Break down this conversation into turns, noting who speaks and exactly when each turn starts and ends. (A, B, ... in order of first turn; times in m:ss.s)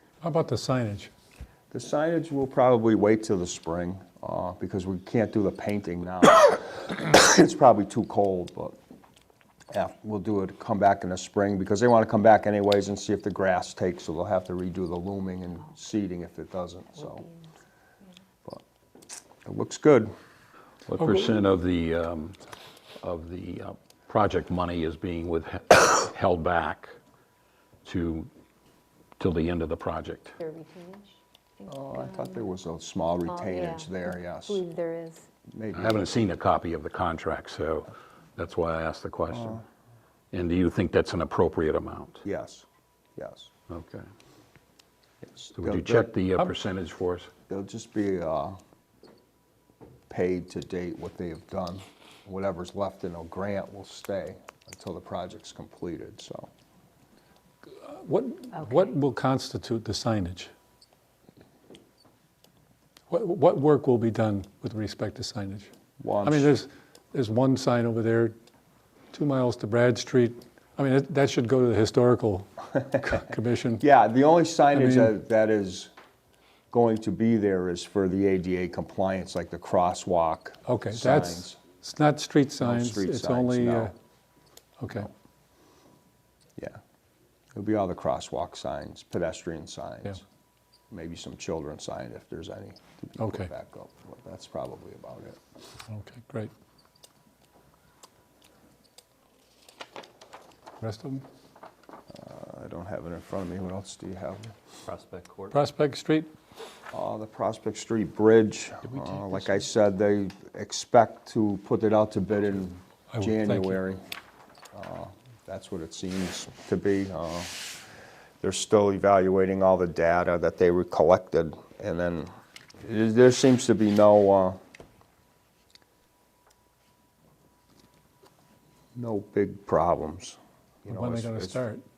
0:00.2-0:01.1 A
0:01.7-0:08.8 B
0:09.7-0:17.3 B
0:19.4-0:20.1 B
0:20.9-0:22.4 C
0:23.0-0:26.9 C
0:27.8-0:28.3 C
0:29.2-0:30.4 C
0:30.4-0:32.2 D
0:31.7-0:34.6 B
0:33.2-0:35.3 D
0:35.5-0:36.1 B
0:35.7-0:39.6 C
0:40.3-0:42.2 C
0:42.2-0:42.7 B
0:43.2-0:43.5 B
0:43.7-0:44.1 C
0:45.2-0:46.1 B
0:45.6-0:47.3 C
0:47.5-0:48.6 B
0:50.1-0:56.5 B
0:57.8-1:00.5 A
0:58.5-0:59.0 D
1:03.1-1:05.7 A
1:06.0-1:06.5 B
1:06.2-1:08.4 A
1:09.1-1:13.8 A
1:13.8-1:15.9 B
1:14.7-1:15.1 A
1:16.7-1:21.6 B
1:20.7-1:23.9 A
1:22.6-1:23.9 B
1:24.8-1:25.1 A
1:27.6-1:30.2 B
1:30.9-1:35.4 B
1:33.2-1:33.5 A
1:35.9-1:36.5 A
1:40.8-1:41.2 A
1:42.1-1:44.6 B
1:45.4-1:46.3 A
1:46.9-1:54.0 B
1:53.1-1:53.8 A
1:54.7-1:57.7 B
1:58.4-2:04.6 B
2:09.0-2:11.6 B
2:10.9-2:11.8 A